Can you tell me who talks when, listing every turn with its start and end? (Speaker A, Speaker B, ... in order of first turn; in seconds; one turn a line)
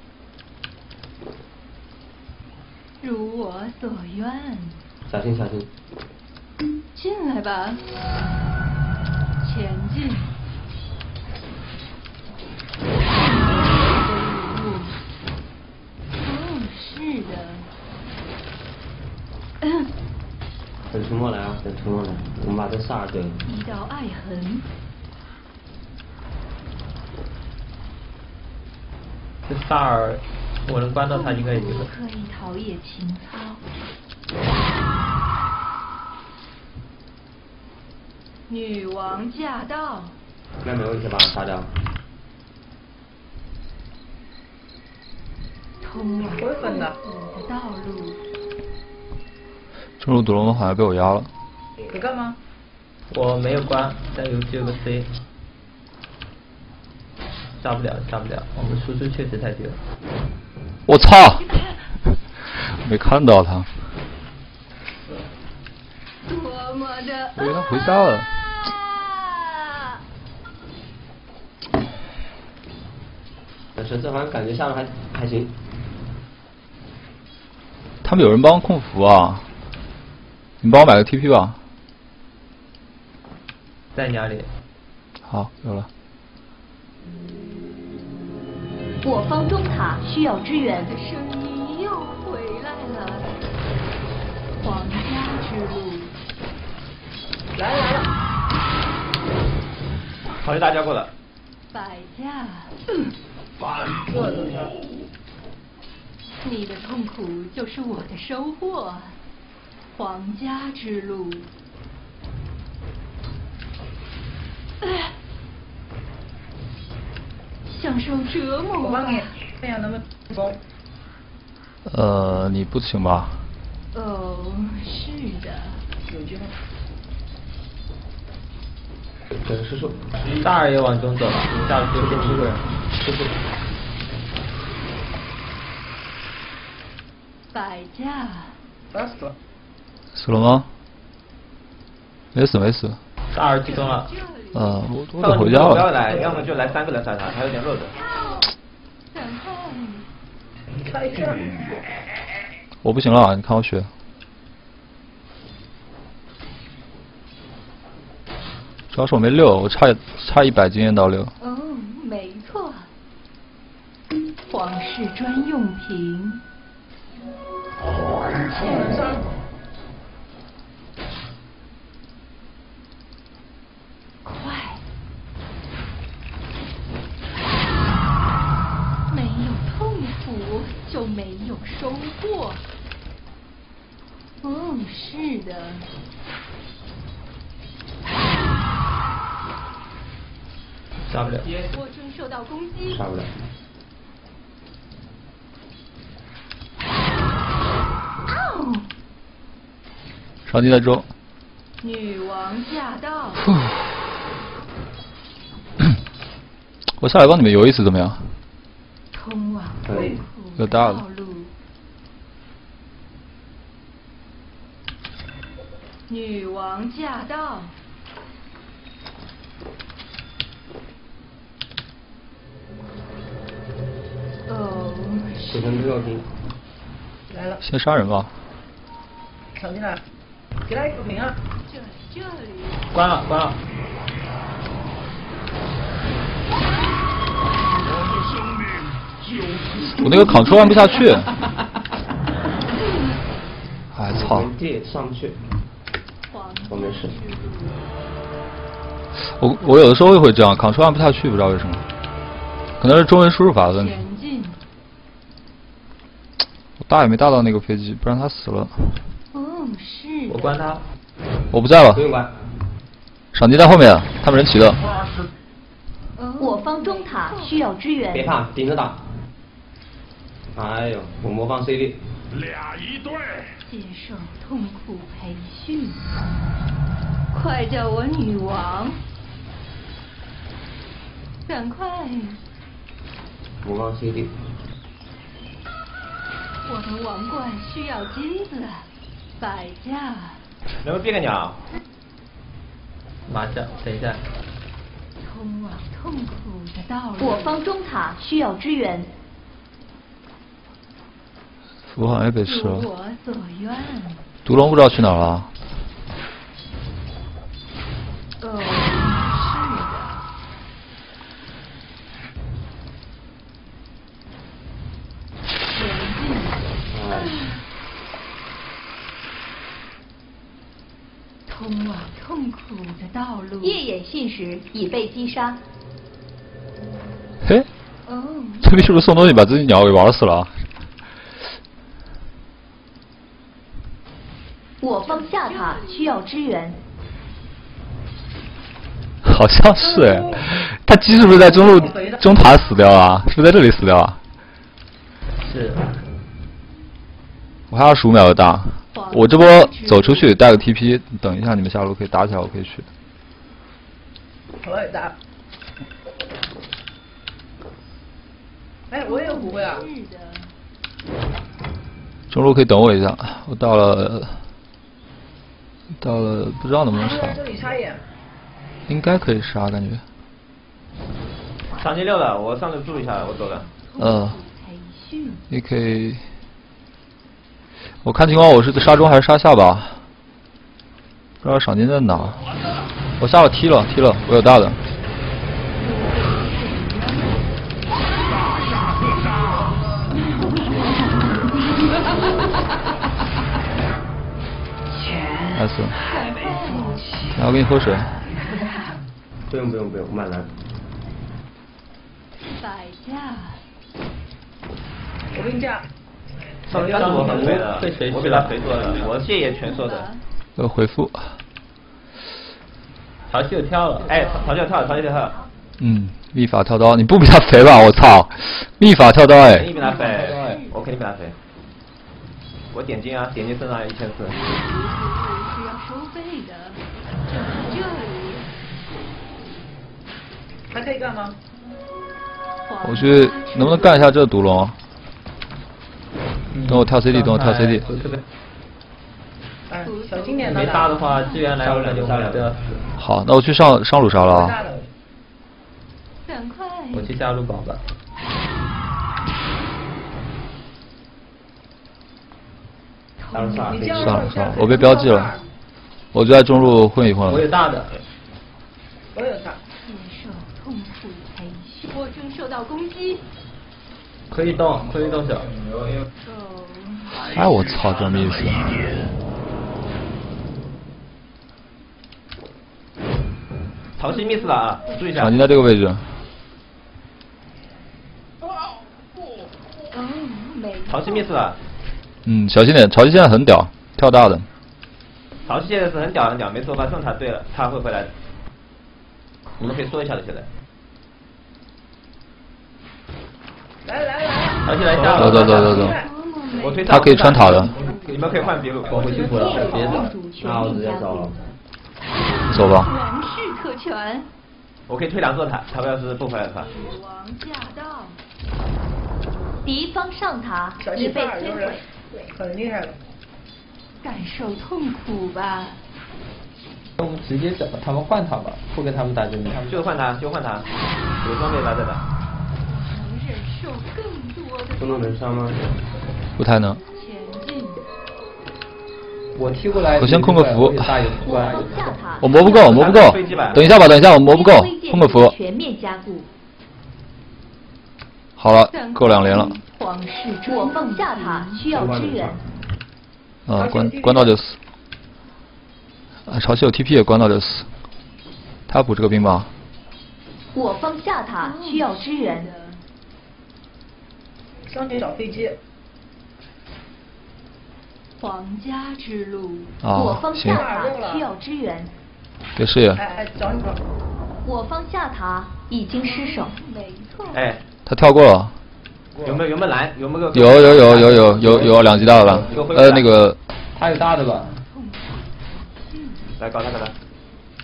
Speaker A: 3.0-4.8
Speaker B: 5.0-5.7
Speaker A: 6.9-7.9
Speaker A: 9.4-10.3
Speaker A: 13.1-15.0
Speaker A: 16.2-17.7
Speaker A: 19.6-19.9
Speaker B: 20.9-23.4
Speaker A: 23.4-24.7
Speaker C: 29.5-31.9
Speaker A: 31.1-33.6
Speaker A: 38.5-40.2
Speaker B: 40.6-41.8
Speaker A: 45.8-48.2
Speaker D: 46.4-47.0
Speaker E: 50.0-51.3
Speaker D: 51.9-52.4
Speaker C: 53.1-55.1
Speaker C: 57.6-59.8
Speaker E: 60.9-61.4
Speaker A: 61.3-62.0
Speaker E: 62.5-63.7
Speaker A: 66.2-70.0
Speaker E: 67.3-68.3
Speaker B: 73.7-75.5
Speaker E: 78.0-79.5
Speaker E: 80.6-81.6
Speaker C: 83.9-84.5
Speaker E: 85.2-85.9
Speaker F: 89.0-90.9
Speaker A: 90.6-93.3
Speaker A: 94.6-96.2
Speaker D: 97.5-98.1
Speaker G: 100.4-101.1
Speaker A: 101.7-102.8
Speaker H: 103.7-104.0
Speaker D: 104.0-104.7
Speaker A: 106.4-109.2
Speaker A: 109.9-111.5
Speaker A: 114.8-115.1
Speaker A: 117.7-119.3
Speaker D: 118.8-120.6
Speaker E: 121.8-123.5
Speaker A: 123.9-125.8
Speaker D: 126.0-126.5
Speaker B: 129.3-130.0
Speaker C: 130.3-133.3
Speaker B: 131.9-132.6
Speaker A: 137.5-138.6
Speaker D: 138.9-139.3
Speaker E: 140.1-140.7
Speaker E: 142.3-143.0
Speaker C: 143.3-144.1
Speaker A: 143.6-144.8
Speaker E: 144.5-145.9
Speaker G: 145.2-147.9
Speaker A: 148.0-148.5
Speaker A: 149.1-150.1
Speaker D: 150.8-151.6
Speaker E: 152.8-153.9
Speaker E: 158.9-161.3
Speaker A: 161.4-162.9
Speaker A: 164.5-166.4
Speaker H: 168.3-168.7
Speaker D: 168.6-169.2
Speaker A: 174.2-174.8
Speaker A: 179.1-182.6
Speaker A: 184.4-185.9
Speaker C: 191.1-191.7
Speaker A: 191.6-193.0
Speaker B: 192.9-193.3
Speaker A: 198.2-198.9
Speaker E: 200.4-201.1
Speaker A: 201.8-203.4
Speaker E: 207.0-208.3
Speaker A: 209.1-211.5
Speaker B: 209.8-210.2
Speaker E: 210.6-211.0
Speaker A: 216.1-217.8
Speaker A: 224.4-226.1
Speaker B: 225.5-226.3
Speaker D: 227.3-227.6
Speaker E: 227.6-228.3
Speaker D: 229.6-230.0
Speaker D: 230.6-231.3
Speaker A: 231.6-232.9
Speaker C: 232.9-233.6
Speaker H: 237.8-241.0
Speaker E: 240.0-241.3
Speaker A: 240.5-241.1
Speaker A: 242.7-243.2
Speaker E: 243.9-244.5
Speaker B: 244.1-245.4
Speaker A: 246.3-247.9
Speaker B: 246.7-247.2
Speaker E: 249.1-251.8
Speaker E: 252.8-254.0
Speaker A: 253.7-254.6
Speaker E: 256.8-259.0
Speaker A: 259.3-260.6
Speaker C: 260.3-260.8
Speaker E: 261.5-262.0
Speaker B: 261.9-262.4
Speaker E: 263.3-264.8
Speaker A: 266.1-267.8
Speaker F: 266.4-268.3
Speaker B: 268.1-269.1
Speaker B: 270.5-272.1
Speaker H: 272.3-273.5
Speaker A: 273.6-276.0
Speaker A: 277.3-279.0
Speaker A: 281.4-282.4
Speaker B: 283.6-284.4
Speaker A: 286.6-290.4
Speaker G: 290.8-291.6
Speaker C: 293.2-294.2
Speaker A: 295.2-297.6
Speaker F: 297.2-299.1
Speaker E: 301.9-302.9
Speaker A: 302.4-304.3
Speaker E: 304.4-305.5
Speaker A: 308.4-310.2
Speaker A: 315.7-317.6
Speaker B: 316.9-317.5
Speaker A: 321.5-323.8
Speaker F: 323.6-325.6
Speaker E: 327.4-327.7
Speaker A: 328.0-329.5
Speaker E: 328.6-330.6
Speaker F: 334.8-336.8
Speaker A: 335.0-336.3
Speaker E: 339.2-344.2
Speaker D: 339.8-340.4
Speaker D: 341.2-342.3
Speaker C: 345.4-345.9
Speaker E: 347.7-352.9
Speaker A: 348.9-350.6
Speaker D: 354.6-355.1
Speaker D: 358.9-359.9
Speaker A: 359.0-360.5
Speaker E: 362.3-364.4
Speaker E: 366.0-367.4
Speaker D: 366.9-368.0
Speaker E: 368.9-370.0
Speaker G: 371.7-373.6
Speaker A: 373.2-375.4
Speaker E: 374.0-374.4
Speaker E: 375.5-376.2
Speaker E: 378.0-380.0
Speaker E: 381.4-382.4
Speaker E: 383.2-384.8
Speaker A: 385.8-387.6
Speaker D: 389.5-389.8
Speaker A: 390.1-392.6
Speaker E: 395.5-396.0
Speaker A: 396.0-397.3
Speaker E: 397.3-398.1
Speaker B: 399.5-400.5
Speaker A: 402.5-403.6
Speaker D: 405.3-405.9
Speaker G: 406.6-410.1
Speaker C: 406.7-409.1
Speaker B: 406.8-407.7
Speaker A: 409.1-410.2
Speaker E: 410.6-411.3
Speaker C: 413.3-414.3
Speaker G: 414.1-415.4
Speaker E: 415.8-419.7
Speaker G: 419.4-421.4
Speaker A: 419.7-420.8
Speaker C: 419.9-420.6
Speaker G: 422.7-424.4
Speaker A: 424.3-428.5
Speaker D: 430.7-431.4
Speaker A: 432.6-434.2
Speaker E: 432.8-434.8
Speaker C: 436.5-438.2
Speaker E: 436.7-438.1
Speaker D: 439.7-441.0
Speaker A: 439.8-441.5
Speaker C: 440.4-442.9
Speaker B: 441.6-442.5
Speaker E: 442.9-444.6
Speaker D: 444.2-444.8
Speaker A: 446.2-447.1
Speaker C: 446.9-447.8
Speaker A: 453.2-453.9
Speaker B: 453.3-454.4
Speaker D: 453.6-455.4
Speaker E: 453.9-455.3
Speaker E: 456.1-457.5
Speaker C: 457.2-457.9
Speaker D: 459.1-459.6
Speaker A: 459.8-463.2
Speaker C: 464.3-465.6
Speaker A: 466.2-467.4
Speaker E: 467.2-468.9
Speaker G: 474.0-475.3
Speaker A: 474.0-475.7
Speaker E: 475.1-476.1
Speaker A: 479.9-481.3
Speaker G: 480.9-481.6
Speaker E: 482.2-484.4
Speaker G: 485.5-488.1
Speaker G: 489.6-490.5
Speaker D: 493.8-496.1
Speaker C: 494.6-495.9
Speaker E: 495.0-495.9
Speaker A: 495.6-498.0
Speaker G: 496.6-499.5
Speaker E: 496.9-497.7
Speaker C: 498.3-500.1
Speaker F: 499.1-501.3
Speaker D: 499.1-500.1
Speaker B: 500.4-501.4
Speaker A: 502.1-504.3
Speaker E: 502.5-502.9
Speaker G: 504.9-506.7
Speaker A: 506.6-508.2
Speaker F: 509.6-511.8
Speaker D: 510.8-513.0
Speaker A: 514.0-515.8
Speaker C: 517.0-519.9
Speaker G: 519.6-520.7
Speaker G: 521.2-522.0
Speaker A: 522.6-525.3
Speaker B: 524.8-525.7
Speaker E: 526.4-526.8
Speaker A: 526.8-527.9
Speaker C: 529.3-532.0
Speaker E: 530.0-531.2
Speaker F: 531.2-533.2
Speaker E: 532.2-535.3
Speaker G: 532.7-533.6
Speaker F: 534.0-536.3
Speaker E: 538.4-539.5
Speaker A: 538.7-541.8
Speaker F: 540.5-542.4
Speaker B: 541.7-542.4
Speaker E: 543.5-544.6
Speaker D: 543.5-544.3
Speaker E: 546.3-547.7
Speaker E: 548.7-549.5
Speaker F: 550.5-552.5
Speaker A: 551.4-552.8
Speaker D: 554.7-555.5
Speaker A: 558.2-559.8
Speaker E: 559.8-560.6
Speaker F: 559.9-561.9
Speaker D: 560.4-561.2
Speaker E: 562.5-563.0
Speaker D: 562.9-563.8
Speaker F: 564.4-566.5
Speaker A: 566.0-567.5
Speaker G: 567.3-567.6
Speaker E: 567.9-568.5
Speaker G: 569.2-571.5
Speaker E: 570.3-573.4
Speaker B: 570.8-573.0
Speaker C: 571.0-572.3
Speaker G: 572.3-573.2
Speaker C: 573.7-574.5
Speaker A: 574.4-576.3
Speaker G: 576.4-576.9